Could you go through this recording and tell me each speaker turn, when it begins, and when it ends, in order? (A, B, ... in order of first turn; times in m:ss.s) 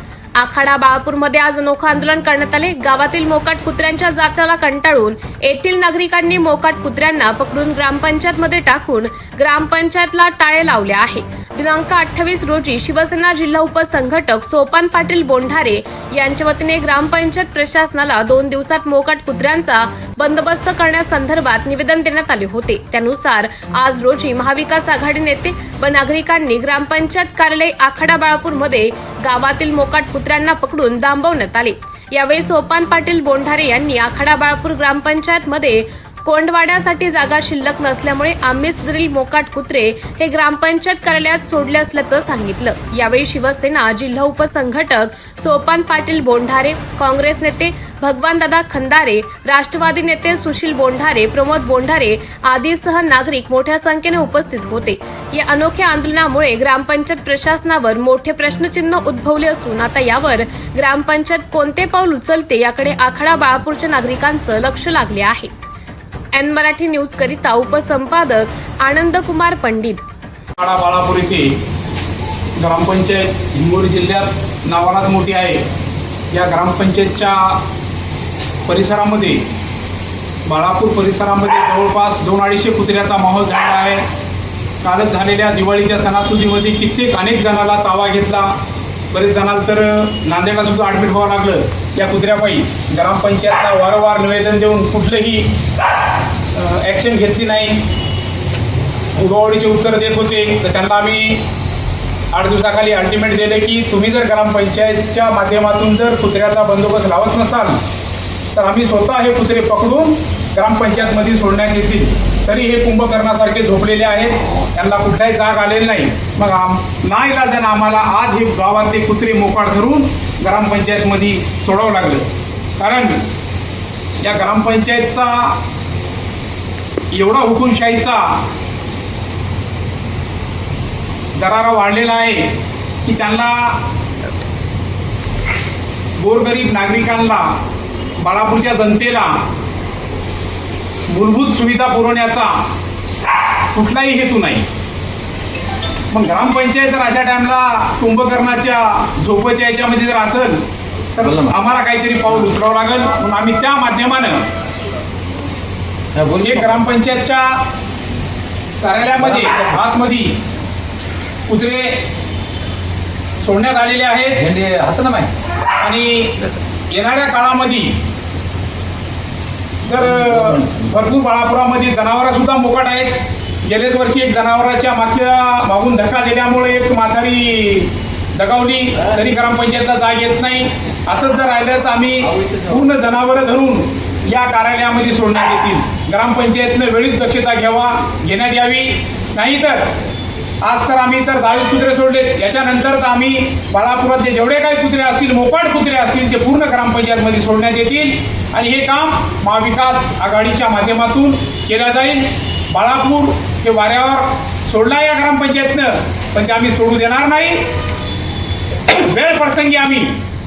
0:00.4-1:05.5 A
1:06.3-1:10.0 A
1:10.6-1:11.6 B
1:12.6-1:15.6 B
1:16.3-1:17.6 B
1:18.6-1:19.5 B
1:20.4-1:24.0 B
1:24.8-1:28.5 B
1:29.1-1:35.6 B
1:36.5-1:37.9 B
1:39.2-1:41.4 B
1:42.3-1:47.8 B
1:48.5-2:03.2 B
2:04.2-2:05.6 B
2:07.1-2:08.4 B
2:11.3-2:12.5 B
2:13.0-2:13.8 B
2:16.2-2:17.5 B
2:18.2-2:19.4 B
2:21.1-2:22.6 B
2:23.7-2:24.6 B
2:26.1-2:30.6 B
2:31.2-2:34.5 B
2:31.2-2:31.5 C
2:36.1-2:36.8 C
2:36.4-2:37.6 B
2:38.8-2:40.4 B
2:39.3-2:39.7 C
2:41.5-2:42.0 B
2:43.4-2:44.5 B
2:44.4-2:45.3 C
2:45.8-2:47.9 B
2:49.8-3:09.9 B
2:50.3-2:50.7 C
3:10.6-3:27.6 B
3:28.9-3:30.2 B